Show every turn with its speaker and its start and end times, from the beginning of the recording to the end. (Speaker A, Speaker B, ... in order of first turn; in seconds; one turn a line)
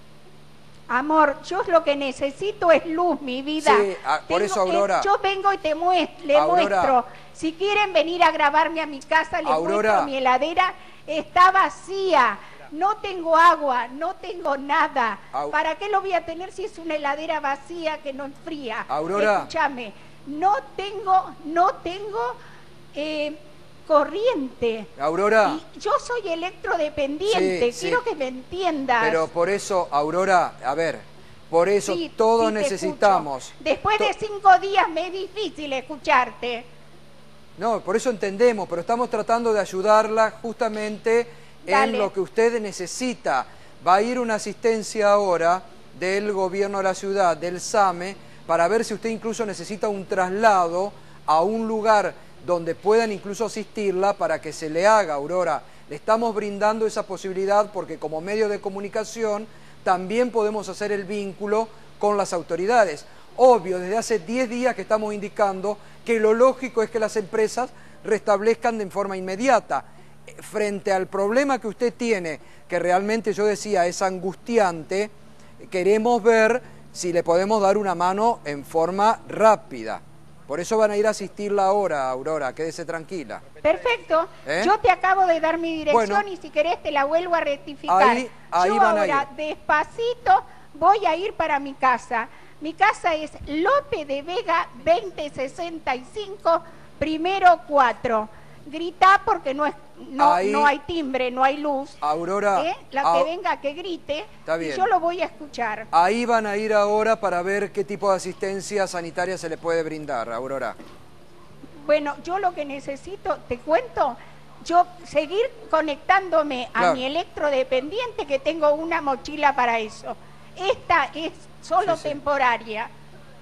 Speaker A: 0.9-22.4
Speaker B: 3.6-5.1
Speaker B: 6.3-7.0
Speaker B: 9.4-10.1
Speaker B: 18.9-19.5
Speaker A: 22.9-24.9
Speaker B: 25.0-25.6
Speaker A: 25.4-29.3
Speaker B: 27.3-28.0
Speaker B: 29.0-34.1
Speaker A: 31.9-36.7
Speaker B: 37.6-75.1
Speaker A: 41.7-42.1
Speaker B: 75.6-83.4
Speaker A: 83.6-102.0
Speaker B: 84.5-84.7
Speaker B: 85.9-86.3
Speaker B: 87.9-89.3
Speaker B: 100.2-100.7
Speaker B: 102.0-103.3
Speaker A: 102.6-105.9
Speaker B: 104.5-104.9
Speaker B: 105.9-110.8
Speaker A: 111.8-122.9
Speaker B: 116.8-117.0
Speaker B: 121.8-122.2